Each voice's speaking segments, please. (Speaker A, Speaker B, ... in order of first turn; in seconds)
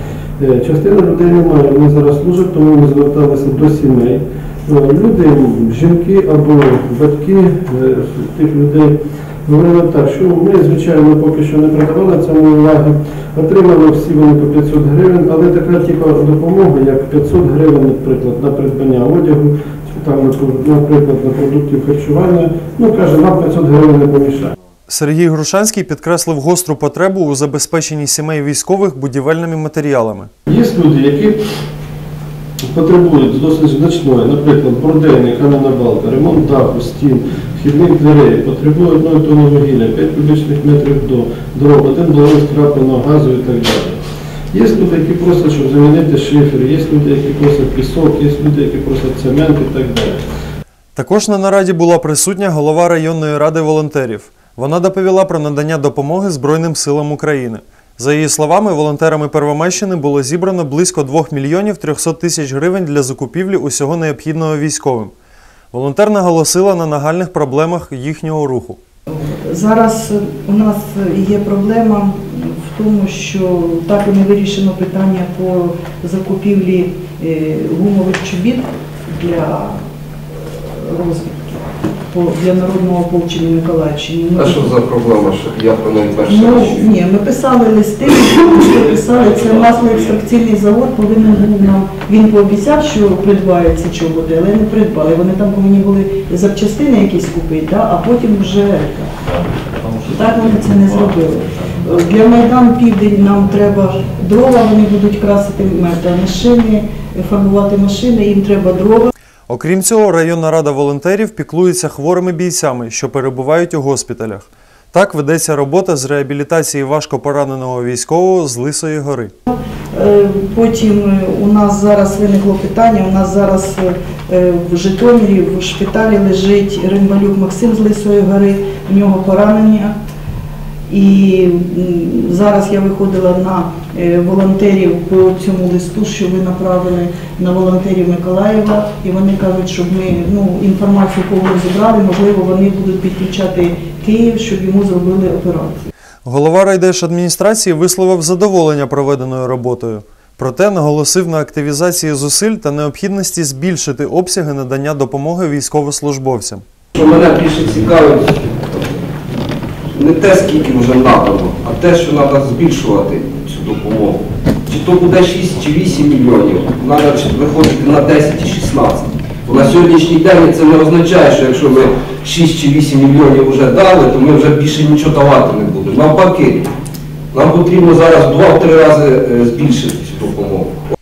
Speaker A: 0.4-24.5, 30.5-31.4, 32.7-44.0, 44.5-50.2
Speaker B: 24.9-30.3, 50.9-65.1, 65.7-68.8, 109.5-119.3, 146.2-156.6
Speaker C: 69.1-79.8, 80.8-84.8, 86.2-99.1, 100.0-109.1, 119.5-129.9, 130.9-145.9
Speaker D: 84.3-86.9, 156.9-158.5, 159.9-176.7, 177.3-180.7